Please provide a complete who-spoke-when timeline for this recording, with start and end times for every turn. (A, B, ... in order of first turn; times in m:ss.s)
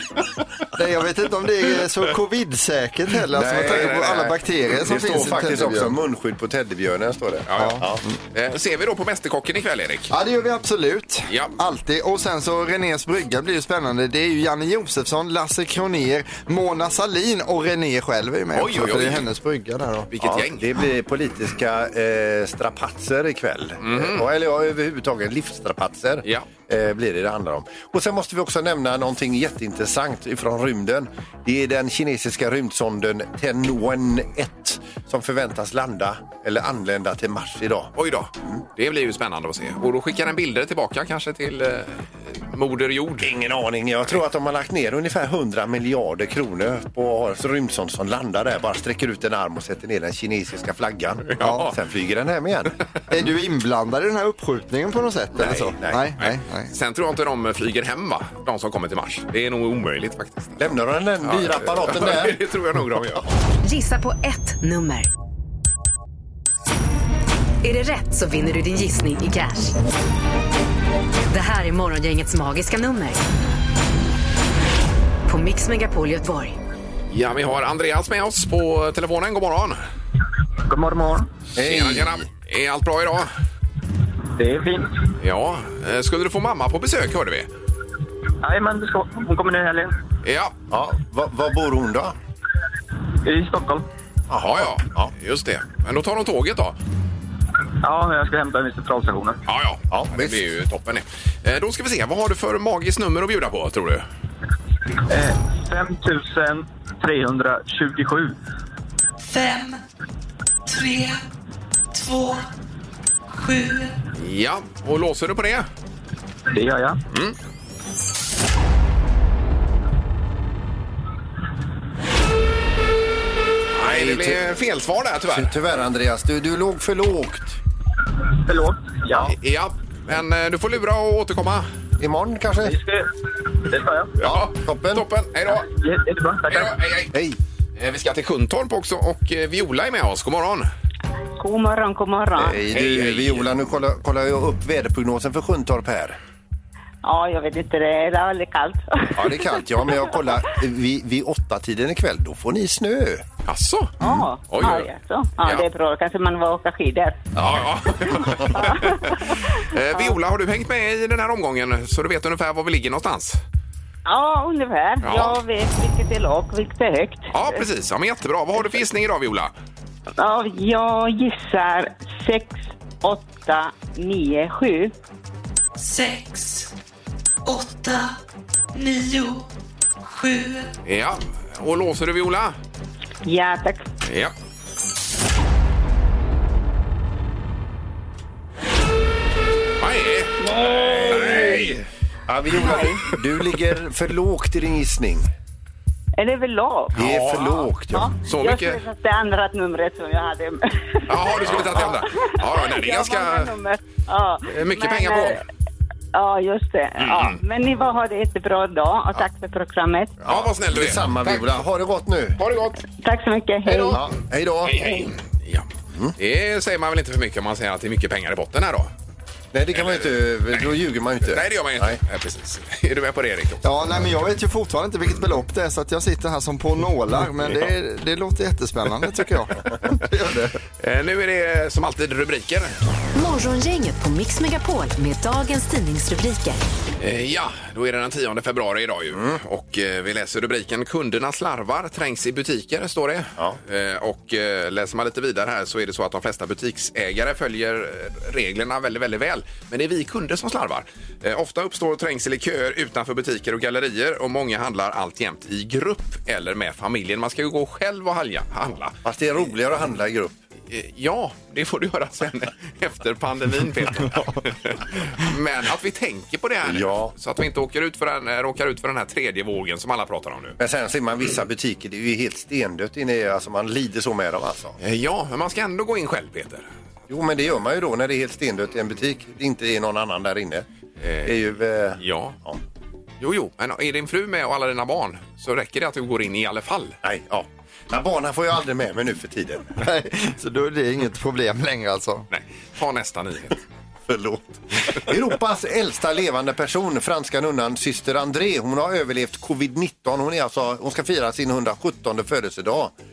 0:00.7-0:05.9 A
0:03.3-0:08.0 B
0:03.6-0:04.3 C
0:07.5-0:10.1 C
0:07.6-0:07.8 A
0:10.1-0:20.1 A
0:11.3-0:11.5 C
0:18.5-0:19.2 C
0:20.1-0:20.7 C
0:20.2-0:37.9 B
0:23.8-0:24.2 C
0:38.0-0:43.3 C
0:43.2-0:52.8 B
0:51.3-0:51.7 C
0:51.4-0:51.7 A
0:53.1-0:56.7 A
0:55.4-0:56.1 B
0:56.2-1:00.7 C
1:00.6-1:02.4 B
1:01.2-1:03.3 C
1:03.6-1:05.1 D
1:07.6-1:09.7 D
1:11.3-1:13.2 D
1:15.3-1:16.6 D
1:17.1-1:19.8 C
1:20.7-1:21.3 E
1:21.6-1:22.2 B
1:21.6-1:23.3 C
1:24.4-1:24.9 E
1:25.2-1:27.5 C
1:28.4-1:29.9 E
1:30.2-1:30.5 C
1:30.7-1:32.2 B
1:33.2-1:33.8 E
1:34.3-1:35.1 B
1:34.4-1:36.8 C
1:37.8-1:39.4 E
1:39.5-1:44.0 C
1:39.9-1:40.4 B
1:45.1-1:48.3 E
1:49.2-1:49.8 F
1:50.7-1:51.2 F
1:51.9-1:52.5 F
1:53.3-1:54.0 F
1:54.1-1:55.7 C
1:56.5-1:57.0 E
1:57.1-1:57.4 C
2:03.7-2:05.6 C
2:03.8-2:04.4 B
2:05.3-2:07.6 B
2:08.4-2:09.3 E
2:09.2-2:11.7 C
2:12.0-2:12.8 B
2:12.6-2:13.0 E
2:13.6-2:14.2 E
2:14.2-2:15.0 B
2:14.2-2:15.7 C
2:15.5-2:16.8 E
2:16.5-2:17.1 C
2:17.1-2:17.4 B
2:17.8-2:20.7 C
2:21.4-2:22.6 G
2:22.4-2:26.2 B
2:22.7-2:23.5 C
2:27.0-2:29.4 G
2:29.1-2:33.2 B
2:33.4-2:34.0 C
2:34.0-2:37.2 G
2:34.5-2:34.9 C
2:37.4-2:43.4 C
2:38.2-2:40.1 G
2:44.0-2:47.6 G
2:45.0-2:45.4 C
2:47.3-2:49.5 C
2:50.2-2:54.9 G
2:55.8-2:56.7 F
2:57.4-2:58.2 F
2:58.7-2:59.5 F
3:00.0-3:00.7 F
3:00.8-3:02.6 C
3:03.2-3:03.8 G
3:04.0-3:04.3 C
3:09.8-3:11.8 C
3:10.6-3:15.3 B
3:16.2-3:17.0 G
3:16.9-3:17.7 C
3:17.0-3:18.1 B
3:17.9-3:25.4 G
3:18.2-3:18.8 C
3:21.1-3:23.5 C
3:24.5-3:25.4 C
3:26.1-3:30.2 G
3:27.0-3:27.4 C
3:30.2-3:32.4 B
3:30.2-3:31.6 C
3:32.4-3:32.8 C
3:33.0-3:34.0 G
3:33.6-3:34.0 C
3:33.8-3:34.9 B
3:34.6-3:38.9 C
3:39.5-3:42.0 B
3:39.8-3:40.7 C
3:41.2-3:43.8 C
3:43.6-3:50.6 A
3:50.8-3:52.8 C
3:53.1-3:56.6 D
3:57.0-4:19.0 C
4:19.0-4:20.4 B
4:20.7-4:30.6 C
4:26.6-4:27.1 B
4:30.6-4:34.8 B
4:34.8-4:36.6 C
4:37.1-4:40.6 B
4:41.0-4:41.4 C
4:41.2-4:42.6 B
4:42.0-4:42.4 C
4:43.2-4:47.0 C
4:47.0-4:49.8 B
4:49.8-4:52.3 A
4:52.3-4:53.6 C
4:54.1-5:02.9 B